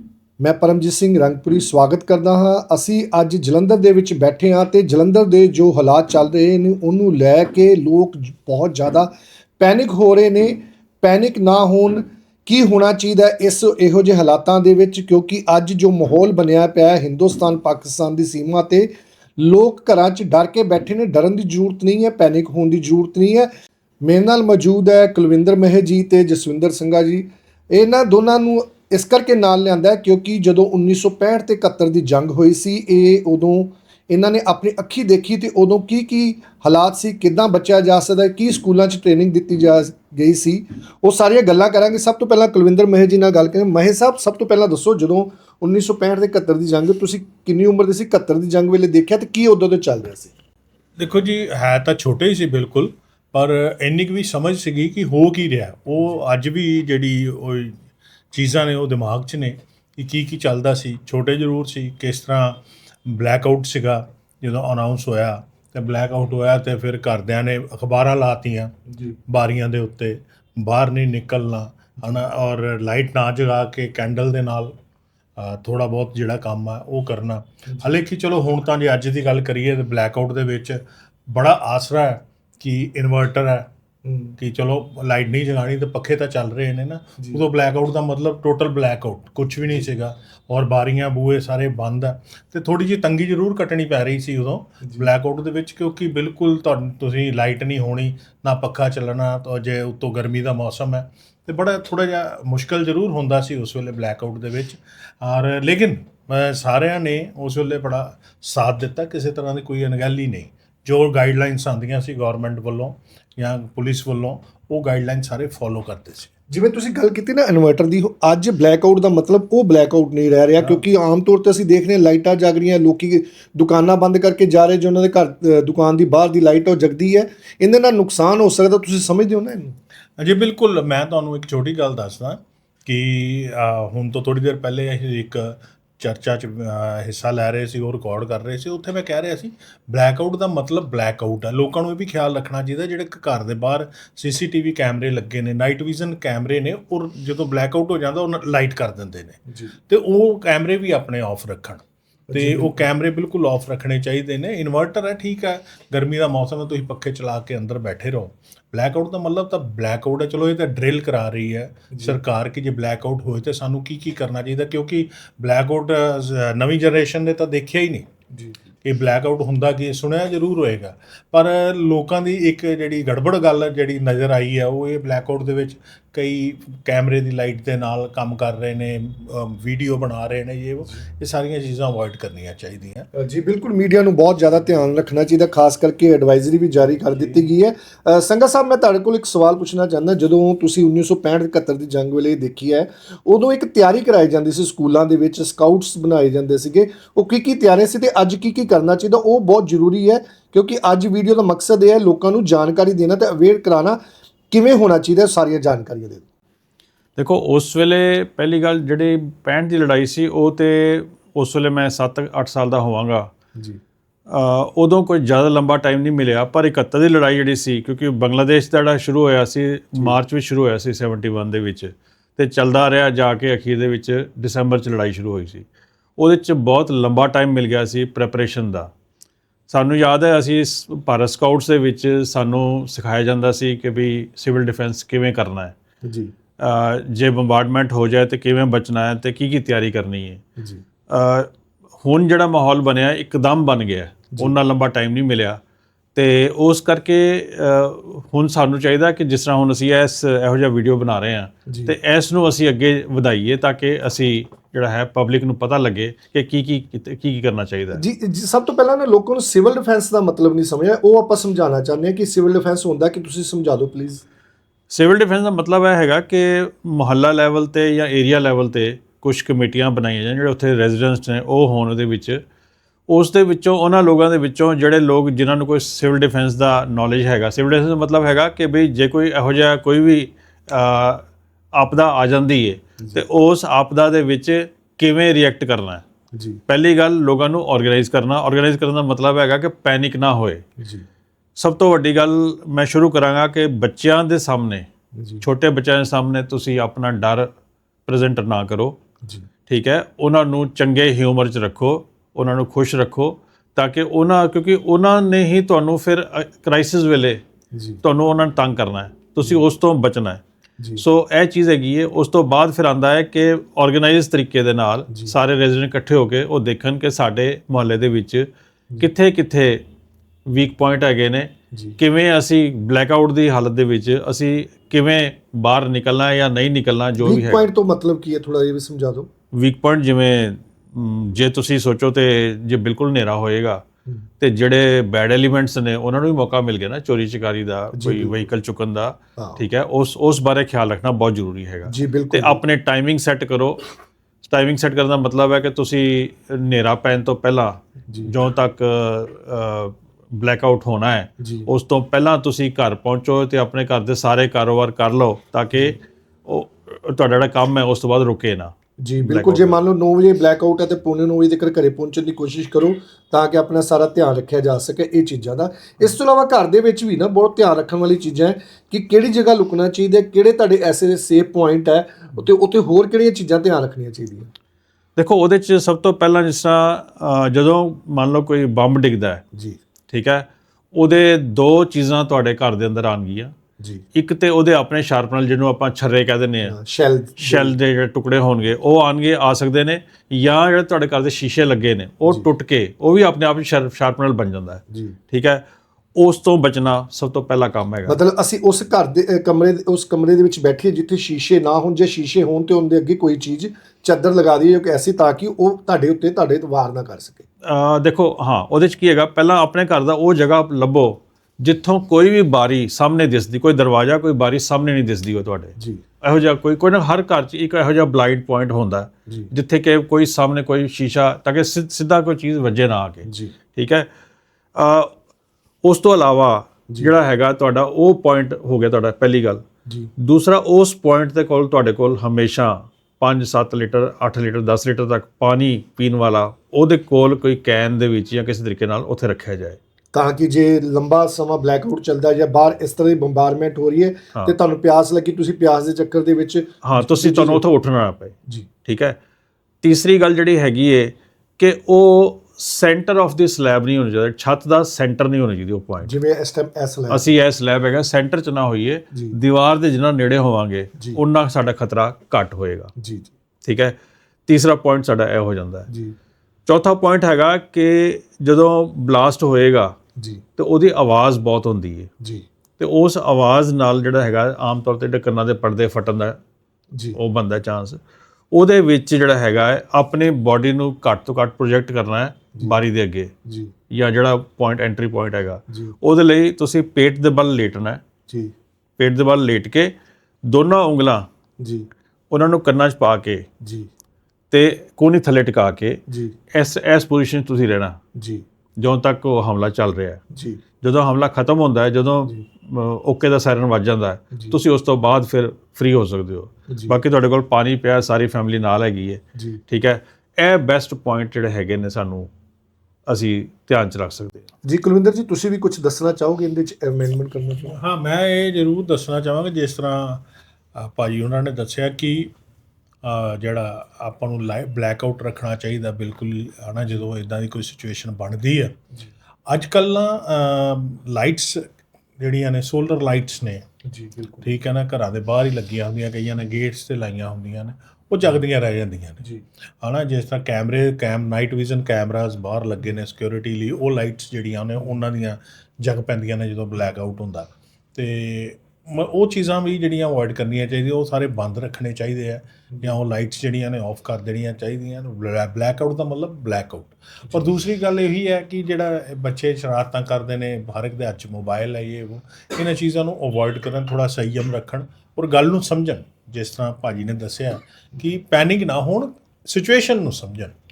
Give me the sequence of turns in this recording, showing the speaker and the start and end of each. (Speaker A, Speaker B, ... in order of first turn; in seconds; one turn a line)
Speaker A: 0.4-23.5
Speaker A: 24.0-50.3
Speaker B: 51.0-57.8
Speaker B: 58.3-68.7
Speaker A: 68.9-69.2
Speaker B: 69.3-74.7
Speaker B: 75.4-80.8
Speaker B: 81.3-83.7
Speaker A: 84.0-84.3
Speaker B: 84.4-116.3
Speaker A: 94.8-95.1
Speaker A: 116.5-129.7
Speaker B: 120.6-120.8
Speaker B: 130.2-168.1
Speaker A: 152.3-152.8
Speaker A: 161.9-162.2
Speaker B: 168.8-183.1
Speaker A: 183.1-204.0
Speaker A: 204.5-206.2
Speaker C: 207.2-213.3
Speaker C: 214.3-225.7
Speaker C: 226.2-228.9
Speaker C: 229.7-235.7
Speaker A: 236.0-236.3
Speaker C: 236.6-240.4
Speaker A: 240.6-240.8
Speaker C: 241.1-241.5
Speaker C: 242.0-245.6
Speaker C: 246.1-258.0
Speaker A: 251.7-251.9
Speaker A: 257.9-264.2
Speaker C: 264.9-272.4
Speaker C: 273.1-286.0
Speaker A: 283.0-283.2
Speaker A: 286.3-286.6
Speaker C: 286.7-290.6
Speaker A: 290.8-291.1
Speaker C: 291.6-294.9
Speaker A: 295.2-295.4
Speaker C: 295.4-297.5
Speaker C: 298.1-299.0
Speaker A: 299.2-299.5
Speaker C: 299.7-307.4
Speaker A: 307.7-308.0
Speaker C: 308.0-310.4
Speaker C: 311.0-318.5
Speaker C: 319.0-319.8
Speaker C: 320.5-327.6
Speaker A: 327.2-329.3
Speaker C: 329.6-333.8
Speaker C: 334.4-343.8
Speaker A: 337.9-338.4
Speaker A: 339.4-339.6
Speaker A: 341.9-342.6
Speaker C: 344.4-358.7
Speaker A: 351.4-351.7
Speaker A: 359.0-374.5
Speaker C: 359.2-359.8
Speaker C: 375.1-379.4
Speaker A: 379.5-379.8
Speaker C: 380.1-383.5
Speaker C: 384.1-386.8
Speaker A: 386.6-387.8
Speaker C: 387.4-395.6
Speaker A: 394.9-395.2
Speaker C: 396.2-398.2
Speaker A: 398.1-407.4
Speaker C: 407.6-424.1
Speaker A: 415.8-416.0
Speaker A: 423.3-423.5
Speaker C: 424.7-425.1
Speaker C: 425.8-429.6
Speaker C: 430.2-439.8
Speaker A: 440.1-447.6
Speaker C: 446.8-448.3
Speaker C: 448.9-449.2
Speaker C: 449.8-456.1
Speaker A: 456.0-457.3
Speaker C: 457.1-462.9
Speaker A: 463.0-463.3
Speaker C: 463.6-463.9
Speaker C: 464.5-465.9
Speaker A: 465.9-466.1
Speaker C: 466.7-469.9
Speaker A: 470.2-470.4
Speaker C: 470.6-472.1
Speaker C: 472.8-476.4
Speaker C: 477.1-478.0
Speaker C: 478.5-483.3
Speaker A: 483.4-483.7
Speaker C: 483.9-488.0
Speaker A: 485.7-485.9
Speaker A: 488.3-488.5
Speaker C: 489.0-489.9
Speaker C: 490.5-491.2
Speaker A: 491.6-491.9
Speaker C: 492.3-493.4
Speaker A: 493.6-493.9
Speaker C: 494.5-498.0
Speaker A: 496.1-496.4
Speaker A: 498.1-498.4
Speaker C: 498.8-500.2
Speaker A: 500.3-500.6
Speaker C: 500.8-512.3
Speaker A: 506.7-506.9
Speaker A: 509.4-509.6
Speaker C: 513.1-514.5
Speaker A: 514.6-517.7
Speaker B: 517.7-520.2
Speaker B: 520.8-522.3
Speaker B: 523.0-528.7
Speaker B: 529.5-531.6
Speaker B: 532.2-533.6
Speaker A: 533.9-534.5
Speaker B: 534.4-539.2
Speaker B: 539.8-570.5